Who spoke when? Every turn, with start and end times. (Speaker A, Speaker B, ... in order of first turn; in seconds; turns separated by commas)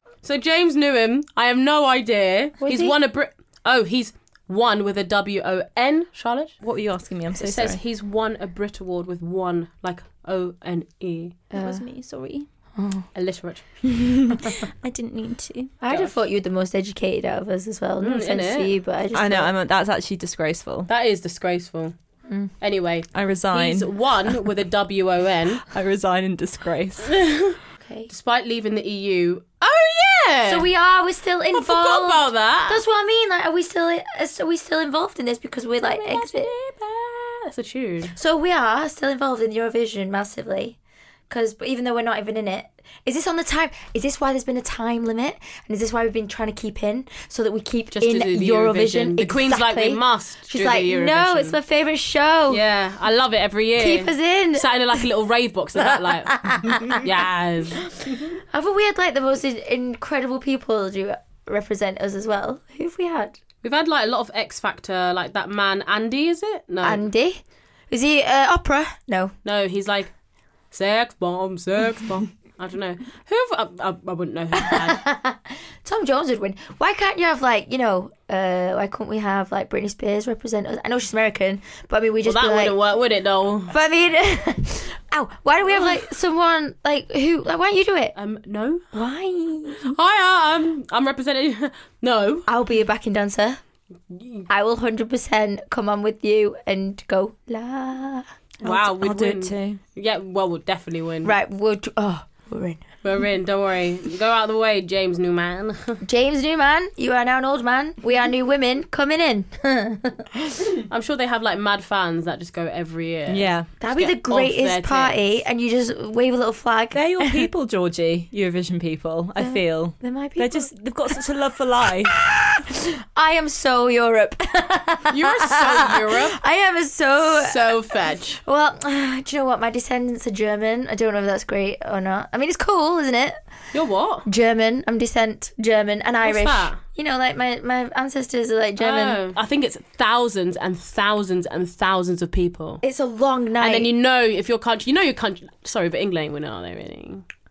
Speaker A: 0.2-6.6, Speaker B: 2.6-3.0, Speaker C: 6.6-7.8, Speaker A: 7.4-11.4, Speaker C: 11.5-12.5, Speaker B: 11.5-11.8, Speaker B: 12.8-13.1, Speaker A: 13.1-13.9, Speaker C: 13.9-14.2, Speaker C: 14.8-15.7, Speaker B: 15.8-19.5, Speaker A: 18.0-18.8, Speaker C: 19.1-20.9, Speaker A: 20.9-21.9, Speaker A: 22.6-25.6, Speaker C: 23.1-23.9, Speaker C: 25.7-27.1, Speaker A: 27.1-27.6, Speaker B: 27.8-28.1, Speaker A: 28.1-30.7, Speaker B: 30.5-36.5, Speaker A: 31.5-32.8, Speaker A: 35.8-38.1, Speaker B: 38.1-40.8, Speaker B: 41.3-52.6, Speaker A: 47.9-51.6, Speaker A: 52.5-57.9, Speaker B: 53.8-54.7, Speaker B: 56.0-57.0, Speaker B: 58.5-63.4, Speaker A: 63.6-67.0, Speaker B: 66.8-69.3, Speaker A: 69.4-70.1, Speaker A: 70.7-75.0, Speaker B: 74.6-82.8, Speaker A: 82.2-83.7, Speaker B: 83.7-88.2, Speaker A: 88.2-88.8, Speaker B: 88.9-89.9, Speaker A: 89.8-92.5, Speaker B: 92.5-93.6, Speaker A: 94.1-94.5, Speaker B: 94.5-98.3, Speaker C: 98.6-99.8, Speaker A: 98.6-101.4, Speaker B: 101.2-102.9, Speaker A: 103.0-106.0, Speaker B: 106.0-110.6, Speaker A: 110.9-115.4, Speaker C: 113.3-113.7, Speaker B: 113.8-117.5, Speaker C: 116.9-122.2, Speaker B: 119.4-121.2, Speaker B: 122.1-133.4, Speaker A: 125.1-126.4, Speaker A: 127.2-128.4, Speaker A: 133.7-134.2, Speaker B: 134.3-139.3, Speaker A: 136.2-136.8, Speaker A: 138.8-142.8, Speaker B: 142.8-143.9, Speaker A: 143.6-147.2